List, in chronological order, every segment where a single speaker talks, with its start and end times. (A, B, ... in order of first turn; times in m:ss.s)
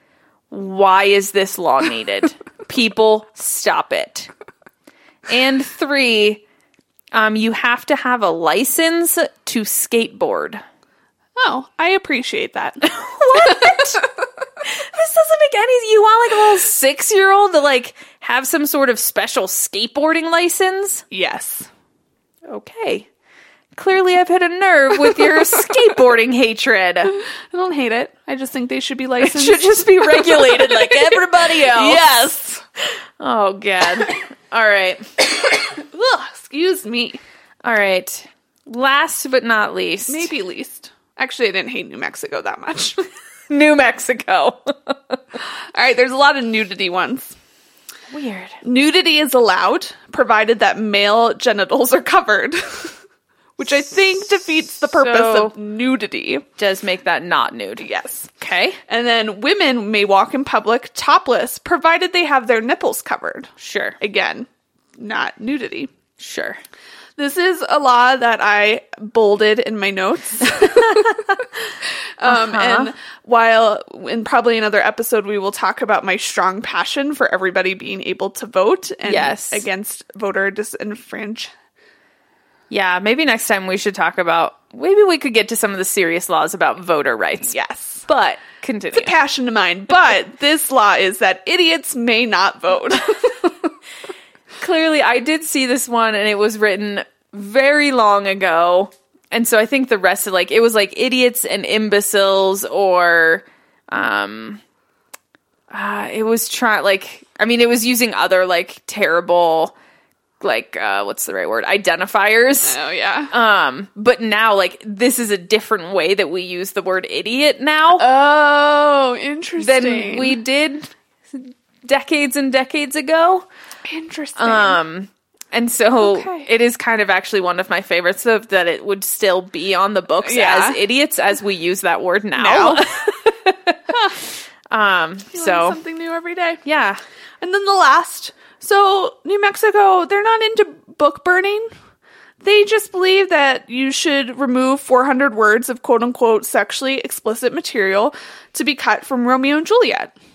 0:00.5-0:04.3 A
0:05.3-0:06.4 A
0:07.1-0:10.6 A
0:11.4-0:14.0 B
0:12.8-0:14.0 A
0:14.6-0:21.0 A
0:21.1-0:21.7 B
0:22.5-0:23.1 A
0:23.7-0:27.2 A
0:27.5-0:32.6 B
0:29.2-0:32.0 A
0:33.2-0:35.2 A
0:35.7-0:37.2 B
0:37.6-0:40.3 A
0:40.1-0:43.0 B
0:43.5-0:45.2 A
0:45.7-0:47.4 B
0:48.1-0:48.6 A
0:48.6-0:52.9 B
0:53.6-0:56.5 B
0:54.9-0:55.5 A
0:56.6-0:57.9 A
0:57.8-0:58.3 B
0:58.4-0:58.8 A
0:58.9-1:05.9 B
1:03.6-1:04.0 A
1:06.2-1:06.6 A
1:07.2-1:11.2 B
1:10.6-1:11.4 A
1:12.2-1:21.5 B
1:12.2-1:12.9 A
1:19.0-1:19.7 A
1:22.7-1:27.6 A
1:27.5-1:28.1 B
1:28.1-1:29.1 A
1:28.9-1:33.7 B
1:34.6-1:44.6 A
1:45.7-1:49.7 A
1:50.4-1:52.8 A
1:52.6-1:53.3 B
1:53.3-1:58.0 A
1:58.0-2:00.4 B
1:59.6-2:03.5 A
2:03.9-2:04.8 B
2:04.4-2:14.0 A
2:06.0-2:06.5 B
2:10.2-2:10.8 B
2:12.4-2:12.8 B
2:13.9-2:14.2 B
2:14.7-2:15.8 A
2:15.3-2:16.6 B
2:16.6-2:17.0 A
2:17.4-2:21.7 B
2:22.4-2:30.1 B